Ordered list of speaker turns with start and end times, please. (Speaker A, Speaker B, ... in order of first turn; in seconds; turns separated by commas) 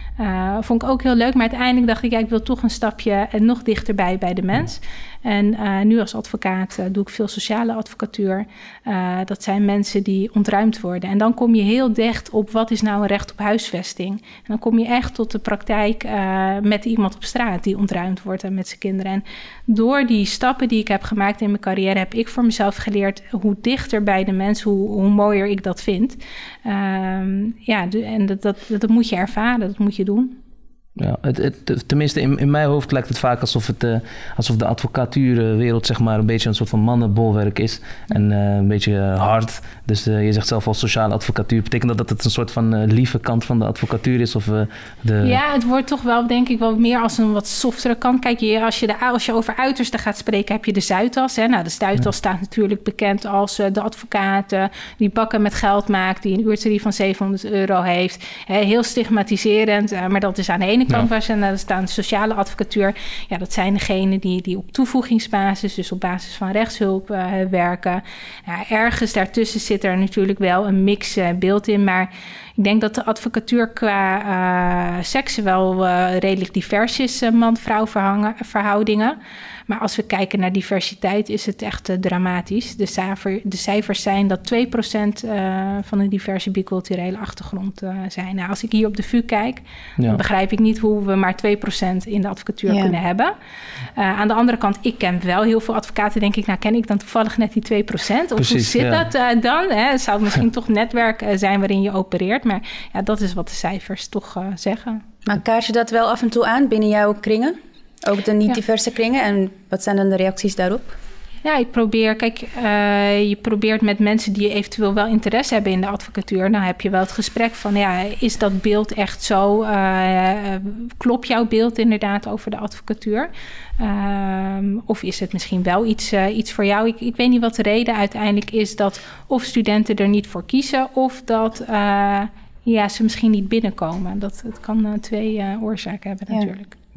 Speaker A: 0.2-30.4, Speaker B: 31.0-45.4, Speaker A: 45.2-79.2, Speaker A: 79.7-93.3, Speaker C: 92.7-93.0, Speaker A: 93.9-105.0, Speaker B: 98.4-99.1, Speaker C: 105.3-111.0, Speaker A: 111.4-136.7